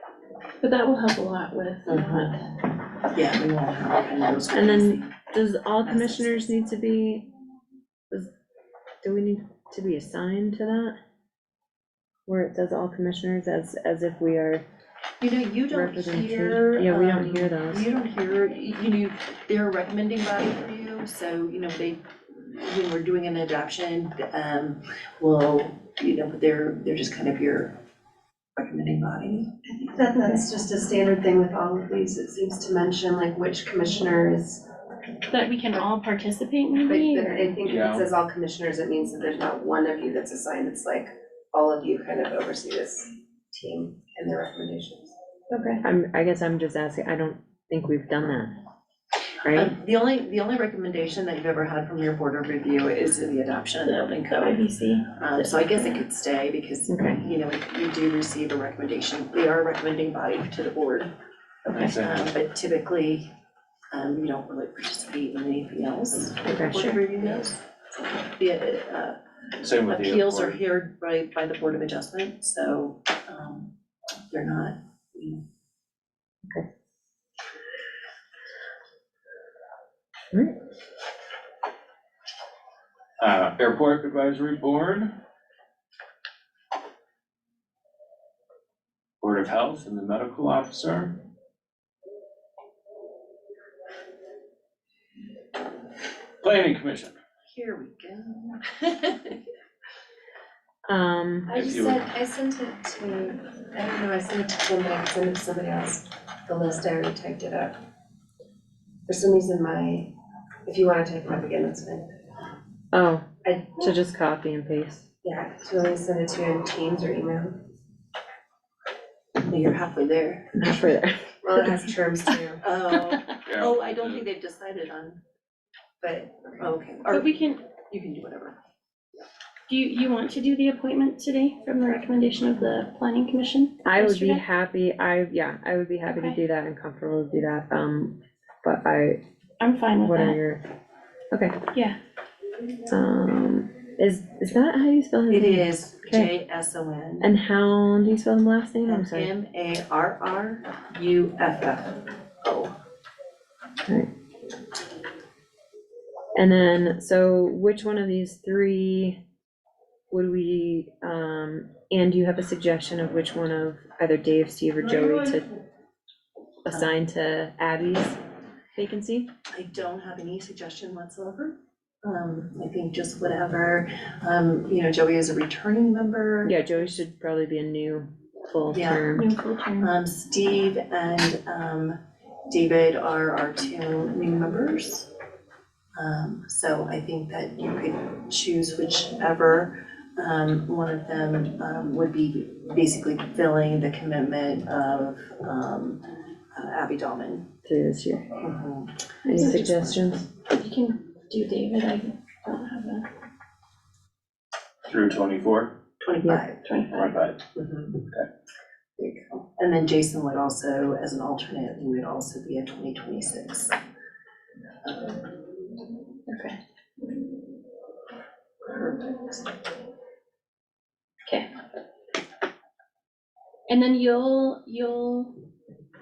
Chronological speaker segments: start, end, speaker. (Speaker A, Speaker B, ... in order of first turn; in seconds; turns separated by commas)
Speaker A: 0.6-2.3, Speaker B: 1.9-2.3, Speaker B: 3.0-5.2, Speaker C: 4.5-7.3, Speaker B: 5.8-6.5, Speaker C: 9.0-10.9, Speaker C: 12.3-14.6, Speaker B: 15.2-27.8, Speaker C: 15.7-17.9, Speaker B: 28.6-29.5, Speaker D: 29.7-34.6, Speaker A: 35.3-37.5, Speaker D: 36.8-45.1, Speaker E: 37.6-38.1, Speaker A: 45.5-45.8, Speaker C: 45.8-48.5, Speaker C: 49.4-49.7, Speaker B: 49.5-54.6, Speaker A: 53.8-55.9, Speaker B: 55.1-61.1, Speaker C: 56.9-57.2, Speaker E: 61.7-62.3, Speaker B: 61.8-63.3, Speaker B: 63.9-69.2, Speaker C: 66.4-67.0, Speaker E: 69.6-70.6, Speaker B: 69.8-73.7, Speaker B: 74.3-75.4, Speaker E: 83.2-85.1, Speaker E: 89.2-91.1, Speaker E: 96.4-97.2, Speaker B: 97.5-99.4, Speaker C: 100.8-101.5, Speaker D: 101.5-107.7, Speaker E: 101.5-102.0, Speaker D: 109.1-110.1, Speaker D: 110.7-112.0, Speaker C: 112.9-115.0, Speaker D: 115.2-117.6, Speaker B: 119.4-120.7, Speaker C: 120.5-121.8, Speaker D: 121.4-122.6, Speaker B: 122.6-125.2, Speaker E: 123.5-124.2, Speaker D: 126.0-126.5, Speaker B: 126.5-128.6, Speaker A: 127.1-127.6, Speaker A: 129.7-134.4, Speaker C: 133.8-139.2, Speaker A: 136.1-136.4, Speaker A: 139.6-140.4, Speaker C: 140.0-140.6, Speaker C: 141.3-141.6, Speaker C: 142.9-146.3, Speaker B: 145.3-147.3, Speaker C: 147.2-149.3, Speaker B: 148.8-152.8, Speaker C: 156.3-159.2, Speaker C: 160.1-165.4, Speaker B: 164.8-165.4, Speaker C: 166.6-168.2, Speaker C: 168.8-169.3, Speaker B: 169.5-176.5, Speaker C: 176.4-179.3, Speaker B: 178.7-179.1, Speaker A: 179.1-179.9, Speaker B: 179.8-182.0, Speaker B: 182.5-185.1, Speaker B: 185.9-196.0, Speaker B: 196.5-197.4, Speaker C: 197.6-198.4, Speaker B: 198.4-200.2, Speaker C: 199.2-200.2, Speaker A: 200.5-203.1, Speaker E: 204.9-205.7, Speaker B: 206.0-206.6, Speaker A: 206.6-207.2, Speaker E: 206.9-207.4, Speaker B: 207.6-208.0, Speaker B: 209.0-213.8, Speaker B: 214.8-215.3, Speaker A: 216.3-216.6, Speaker B: 218.6-219.5, Speaker A: 223.7-225.4